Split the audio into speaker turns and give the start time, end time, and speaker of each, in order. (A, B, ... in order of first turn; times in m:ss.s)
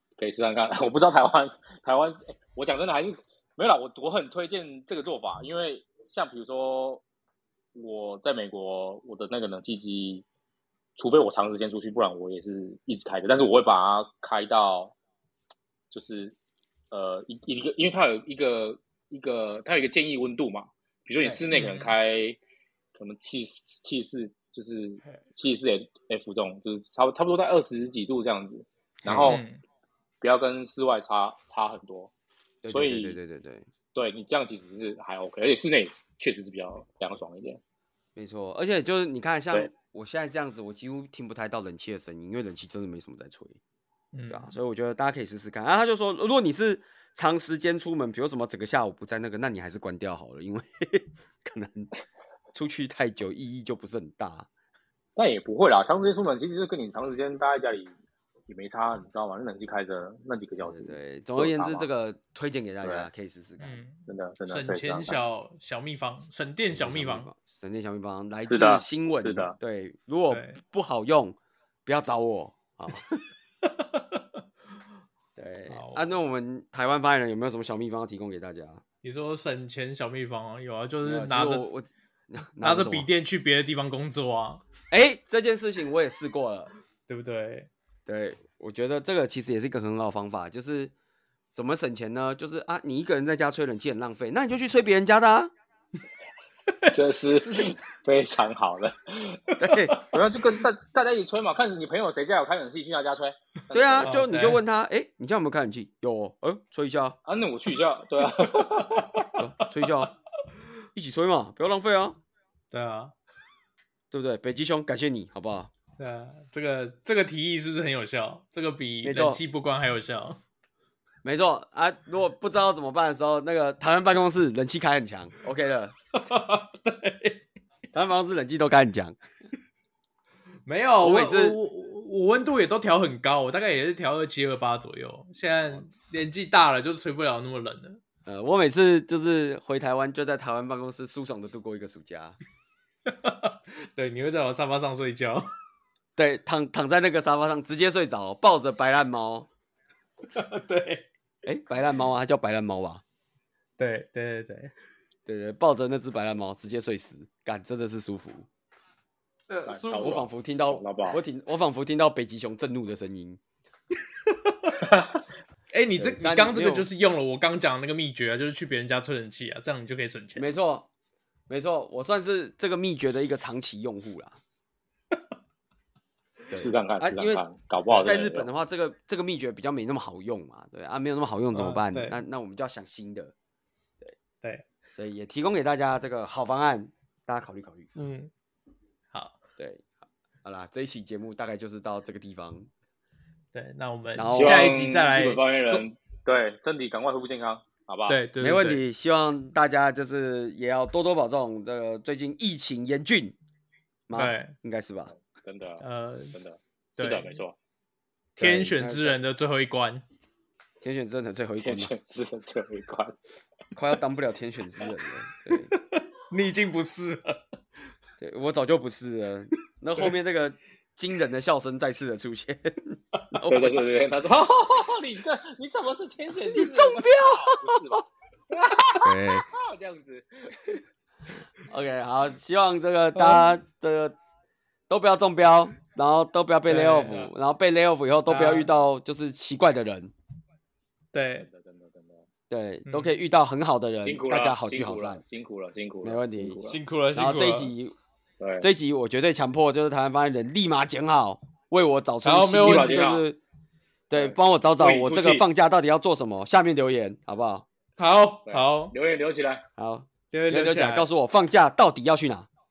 0:00.2-0:07.0 A
0:07.8-0:10.2 A
0:11.0-0:15.0 A
0:15.9-0:16.4 A
0:16.9-0:22.4 A
0:21.5-0:22.0 B
0:23.0-0:29.4 A
0:29.0-0:29.4 C
0:29.2-0:29.6 B
0:30.2-0:32.1 A
0:32.6-0:33.7 C
0:32.7-0:33.2 A
0:33.9-0:37.6 A
0:38.2-0:43.6 C
0:44.1-0:44.5 B
0:44.3-0:51.9 C
0:52.5-0:54.5 C
0:55.2-0:57.9 A
0:58.5-1:01.9 A
1:00.6-1:03.8 C
1:02.8-1:03.1 A
1:03.6-1:07.3 B
1:04.1-1:05.2 A
1:06.7-1:13.2 C
1:08.5-1:09.6 A
1:10.3-1:10.6 B
1:13.6-1:14.2 B
1:15.4-1:18.8 C
1:15.7-1:16.0 B
1:19.0-1:21.6 B
1:21.0-1:23.1 C
1:22.6-1:24.6 B
1:24.9-1:26.7 C
1:27.1-1:27.7 B
1:28.1-1:30.9 C
1:31.5-1:35.5 C
1:36.9-1:44.2 A
1:39.6-1:40.0 C
1:39.7-1:40.1 B
1:43.7-1:47.2 C
1:44.0-1:44.6 B
1:47.3-1:49.3 A
1:49.2-1:50.1 B
1:49.4-1:50.1 C
1:51.0-1:52.2 C
1:52.7-1:53.1 B
1:54.1-1:55.7 C
1:56.0-2:00.4 B
1:59.0-1:59.4 C
2:01.2-2:05.9 C
2:06.1-2:07.4 B
2:07.9-2:09.2 C
2:10.7-2:18.0 B
2:11.0-2:11.6 C
2:18.3-2:22.4 C
2:23.1-2:25.5 B
2:26.2-2:29.5 C
2:30.3-2:31.1 B
2:31.4-2:33.0 C
2:33.8-2:34.7 B
2:35.3-2:38.5 C
2:39.5-2:40.2 B
2:39.7-2:41.2 A
2:40.0-2:43.4 C
2:44.3-2:44.8 B
2:45.7-2:50.5 B
2:46.0-2:46.9 C
2:50.4-2:50.9 C
2:51.5-2:54.4 C
2:56.5-2:57.4 C
2:56.5-2:58.5 A
2:58.0-3:03.3 C
3:01.5-3:02.2 B
3:05.0-3:07.9 C
3:08.0-3:08.3 B
3:09.1-3:09.4 B
3:09.6-3:12.7 C
3:13.5-3:15.8 B
3:14.2-3:14.8 C
3:14.4-3:18.2 A
3:18.1-3:18.8 B
3:18.4-3:23.4 C
3:24.1-3:25.1 C
3:24.1-3:24.6 B
3:25.2-3:27.6 A
3:25.8-3:26.4 B
3:27.0-3:27.3 B
3:28.4-3:29.2 C
3:28.4-3:30.0 B
3:30.8-3:31.9 C
3:31.6-3:33.2 A
3:33.8-3:35.7 C
3:35.7-3:37.4 B
3:38.2-3:43.8 C
3:43.5-3:50.8 A
3:46.5-3:48.0 C
3:49.0-3:49.5 C
3:51.6-3:54.2 C
3:53.2-3:53.5 B
3:54.9-4:00.1 C
3:56.7-3:57.2 B
3:57.0-3:57.3 A
3:58.3-3:58.7 B
4:01.1-4:01.5 B
4:01.4-4:02.3 A
4:02.5-4:05.2 C
4:02.9-4:03.2 B
4:04.0-4:06.8 A
4:06.0-4:06.6 C
4:06.7-4:07.7 B
4:07.1-4:08.0 C
4:08.4-4:08.7 A
4:08.6-4:13.4 C
4:12.2-4:13.1 B
4:12.6-4:13.3 A
4:14.1-4:17.7 C
4:14.1-4:15.4 A
4:18.0-4:18.9 B
4:18.5-4:19.6 A
4:19.8-4:22.5 C
4:20.3-4:21.1 B